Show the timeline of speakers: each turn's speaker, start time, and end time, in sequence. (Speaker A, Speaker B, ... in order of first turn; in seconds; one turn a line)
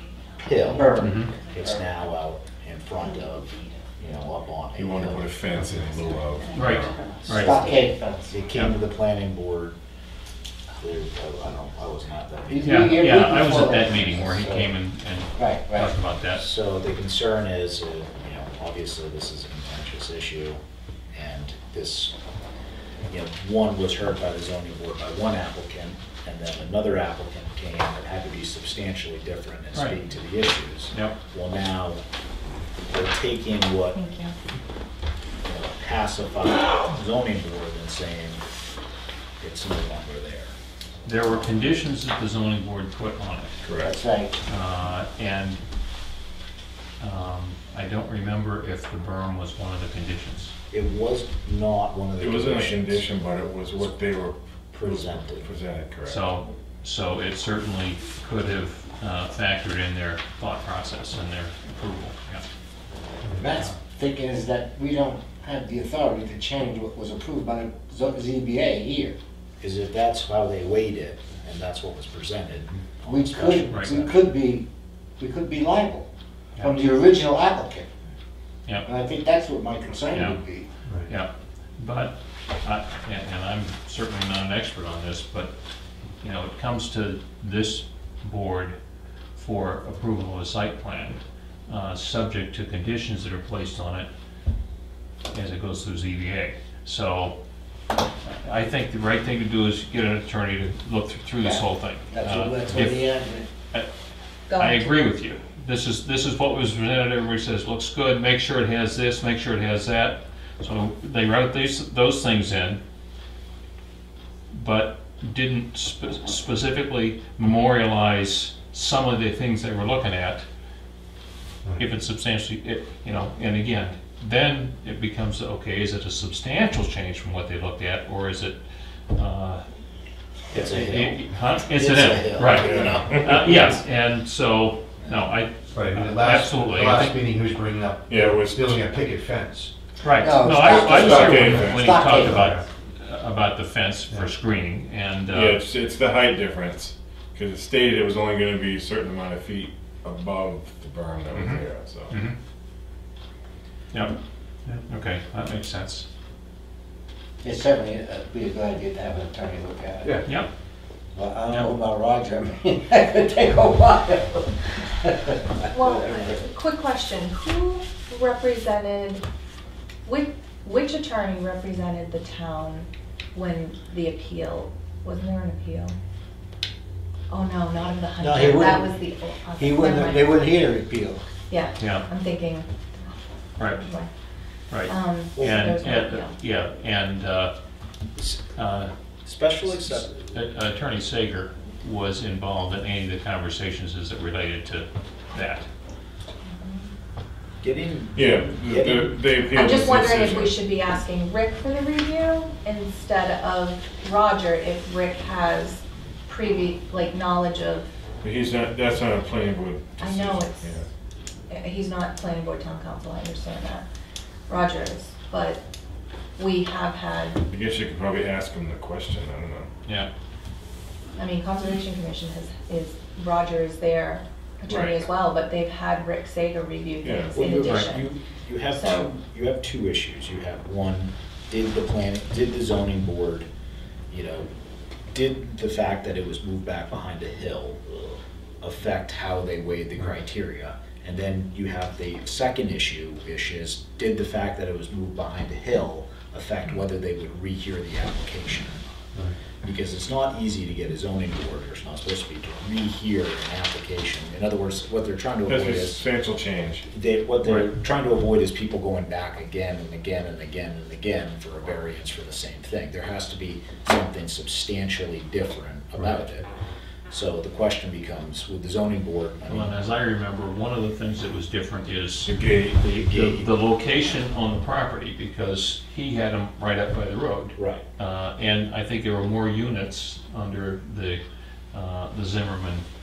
Speaker A: 0.3-5.3
Speaker B: 0.7-1.8
Speaker C: 1.0-1.3
Speaker D: 4.7-7.0
Speaker E: 6.3-7.6
Speaker C: 6.5-7.6
Speaker B: 7.3-8.4
Speaker A: 8.3-9.7
Speaker A: 10.8-13.1
Speaker B: 12.5-14.7
Speaker C: 12.6-16.4
Speaker B: 15.4-15.9
Speaker A: 16.3-20.6
Speaker A: 21.1-22.1
Speaker A: 23.1-32.0
Speaker A: 32.9-34.0
Speaker E: 33.9-34.3
Speaker A: 35.4-38.4
Speaker A: 39.4-40.5
Speaker C: 41.0-43.5
Speaker D: 43.6-43.9
Speaker B: 43.8-44.3
Speaker C: 44.5-45.6
Speaker C: 47.0-50.5
Speaker A: 50.7-53.1
Speaker D: 52.2-56.2
Speaker A: 54.7-55.5
Speaker C: 56.0-62.4
Speaker B: 63.3-69.2
Speaker A: 69.6-74.1
Speaker B: 73.0-74.7
Speaker C: 73.7-74.0
Speaker B: 75.2-77.9
Speaker B: 78.8-80.7
Speaker C: 80.1-80.4
Speaker C: 81.1-85.5
Speaker C: 86.2-88.7
Speaker C: 89.3-94.1
Speaker C: 95.3-97.4
Speaker C: 98.2-103.0
Speaker B: 101.4-103.5
Speaker E: 104.5-104.9
Speaker C: 104.5-112.8
Speaker C: 114.5-120.4
Speaker C: 121.8-128.6
Speaker C: 129.1-129.6
Speaker A: 130.5-133.7
Speaker C: 130.5-137.2
Speaker D: 132.5-133.5
Speaker F: 135.7-139.7
Speaker D: 138.1-138.7
Speaker C: 140.0-145.6
Speaker B: 140.2-142.6
Speaker F: 140.7-142.5
Speaker D: 141.0-141.9
Speaker D: 145.3-152.2
Speaker C: 154.8-156.0
Speaker B: 157.4-160.2
Speaker B: 161.1-166.3
Speaker E: 165.7-169.2
Speaker E: 170.0-175.9
Speaker E: 177.3-180.3
Speaker B: 178.2-179.0
Speaker B: 179.6-181.2
Speaker E: 181.5-184.1
Speaker C: 181.8-182.1
Speaker C: 183.6-183.8
Speaker C: 184.7-187.5
Speaker E: 184.8-186.3
Speaker C: 188.5-188.9
Speaker A: 189.2-190.3
Speaker C: 189.8-195.7
Speaker E: 196.4-196.9
Speaker A: 197.6-199.1
Speaker D: 198.1-200.6
Speaker E: 199.5-207.9
Speaker D: 208.2-210.8
Speaker E: 210.0-210.7
Speaker E: 211.5-213.9
Speaker E: 214.5-215.6
Speaker E: 216.4-217.4
Speaker D: 217.5-219.7
Speaker C: 219.8-220.1
Speaker E: 221.2-228.1
Speaker D: 224.7-225.0
Speaker D: 227.0-227.4
Speaker A: 227.3-233.5
Speaker C: 227.6-227.9
Speaker E: 228.7-229.1
Speaker A: 234.1-234.5
Speaker A: 235.1-248.8
Speaker A: 249.6-256.0
Speaker D: 255.5-256.9
Speaker A: 256.9-266.5
Speaker A: 267.1-269.8
Speaker C: 269.4-282.8
Speaker D: 272.2-272.9
Speaker A: 273.0-273.4
Speaker A: 277.6-277.8